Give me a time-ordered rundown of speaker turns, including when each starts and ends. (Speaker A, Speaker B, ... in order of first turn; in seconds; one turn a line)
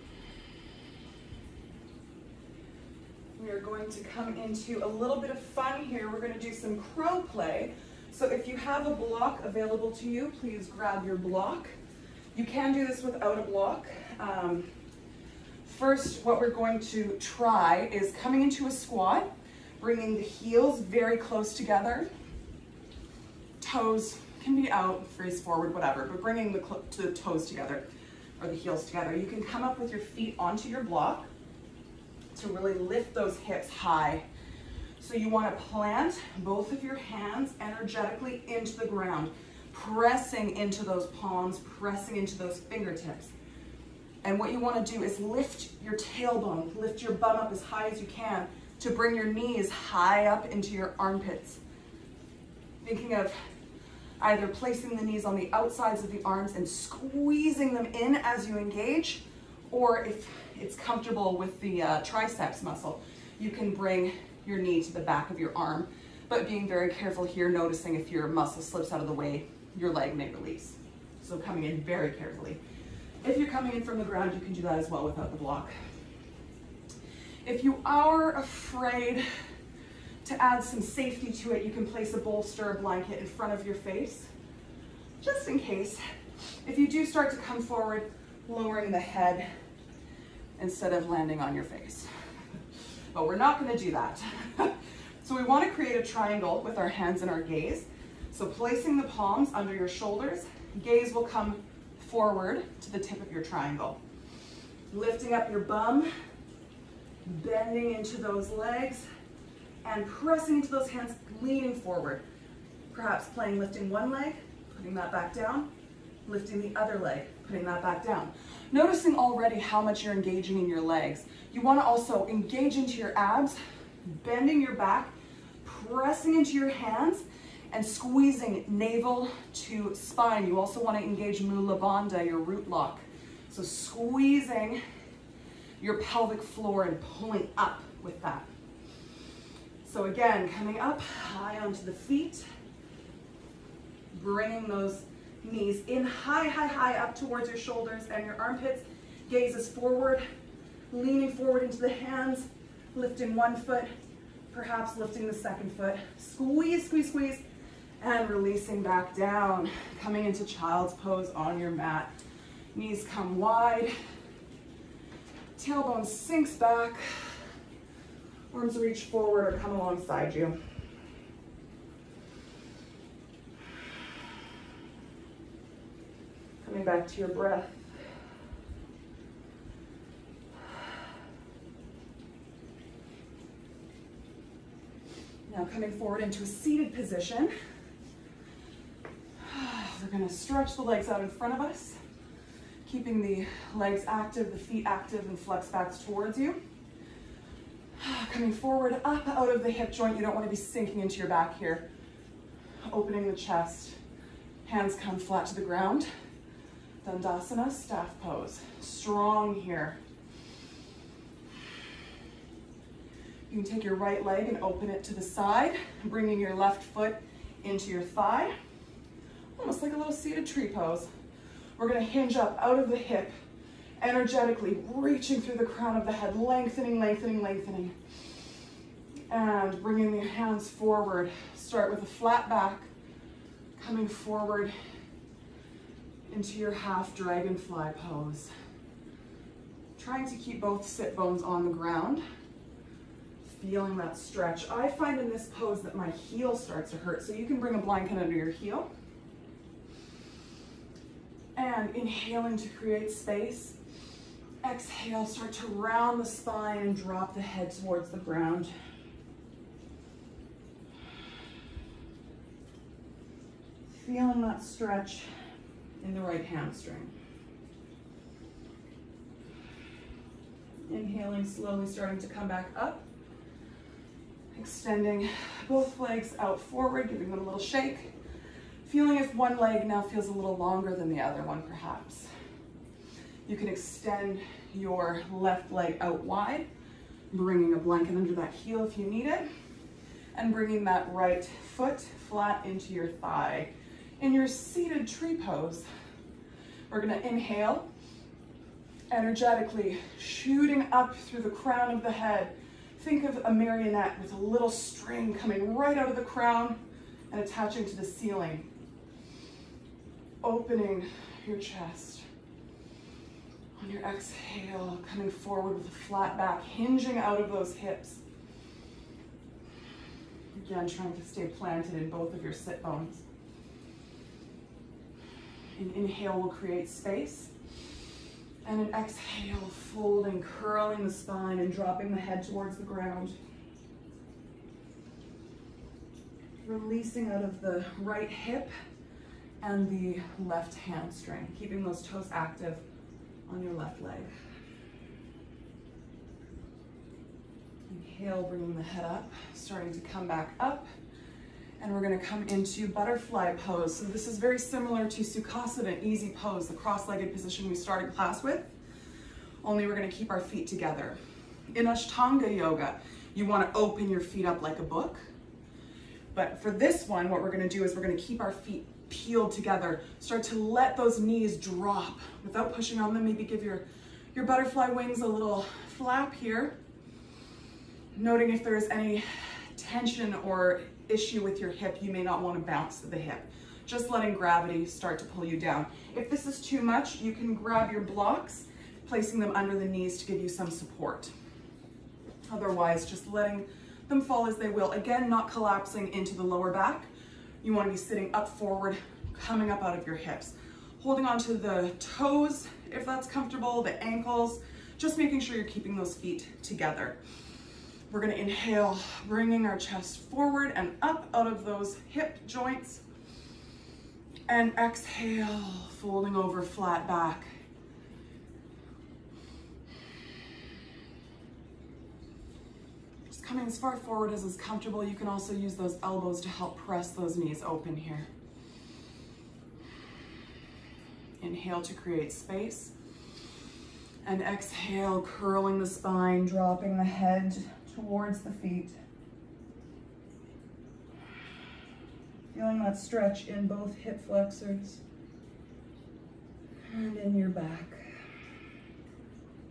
Speaker A: 3.4-11.7
Speaker A: 12.3-14.7
Speaker A: 15.6-19.3
Speaker A: 19.8-22.1
Speaker A: 23.6-27.8
Speaker A: 28.4-31.3
Speaker A: 32.3-34.2
Speaker A: 35.0-43.3
Speaker A: 44.2-51.6
Speaker A: 52.8-53.4
Speaker A: 54.2-72.6
Speaker A: 73.2-75.7
Speaker A: 77.4-79.2
Speaker A: 80.2-84.3
Speaker A: 85.2-86.0
Speaker A: 86.6-89.5
Speaker A: 90.6-92.1
Speaker A: 93.1-104.0
Speaker A: 104.9-106.1
Speaker A: 107.2-109.0
Speaker A: 109.8-112.2
Speaker A: 112.9-115.7
Speaker A: 116.2-134.8
Speaker A: 135.8-138.5
Speaker A: 139.8-142.4
Speaker A: 144.1-150.2
Speaker A: 150.9-153.9
Speaker A: 154.5-157.4
Speaker A: 158.0-162.1
Speaker A: 162.7-163.9
Speaker A: 165.6-167.0
Speaker A: 168.5-170.6
Speaker A: 176.6-177.9
Speaker A: 185.5-187.5
Speaker A: 189.4-192.0
Speaker A: 192.8-196.6
Speaker A: 198.0-201.8
Speaker A: 202.9-204.0
Speaker A: 204.6-206.1
Speaker A: 207.0-210.0
Speaker A: 213.5-218.5
Speaker A: 219.6-221.1
Speaker A: 221.8-223.3
Speaker A: 224.0-227.9
Speaker A: 229.3-232.9
Speaker A: 233.8-234.7
Speaker A: 236.3-238.5
Speaker A: 240.0-242.2
Speaker A: 243.4-248.9
Speaker A: 251.6-253.8
Speaker A: 254.6-258.7
Speaker A: 263.9-265.3
Speaker A: 266.0-267.1
Speaker A: 270.9-273.0
Speaker A: 274.5-278.1
Speaker A: 278.8-282.3
Speaker A: 283.4-286.6
Speaker A: 287.3-289.4
Speaker A: 290.3-295.9
Speaker A: 296.9-297.9
Speaker A: 299.1-306.8
Speaker A: 307.3-308.7
Speaker A: 310.4-312.2
Speaker A: 313.8-318.2
Speaker A: 320.6-323.2
Speaker A: 325.8-327.5
Speaker A: 328.6-333.4
Speaker A: 336.6-338.7
Speaker A: 339.6-342.8
Speaker A: 343.5-344.3
Speaker A: 347.9-350.9
Speaker A: 351.8-358.7
Speaker A: 359.6-361.2
Speaker A: 361.7-365.2
Speaker A: 366.3-376.7
Speaker A: 378.1-391.3
Speaker A: 392.5-397.1
Speaker A: 397.6-407.2
Speaker A: 408.1-413.0
Speaker A: 414.5-417.5
Speaker A: 423.3-428.3
Speaker A: 431.4-432.9
Speaker A: 434.2-439.0
Speaker A: 442.5-445.0
Speaker A: 446.9-448.0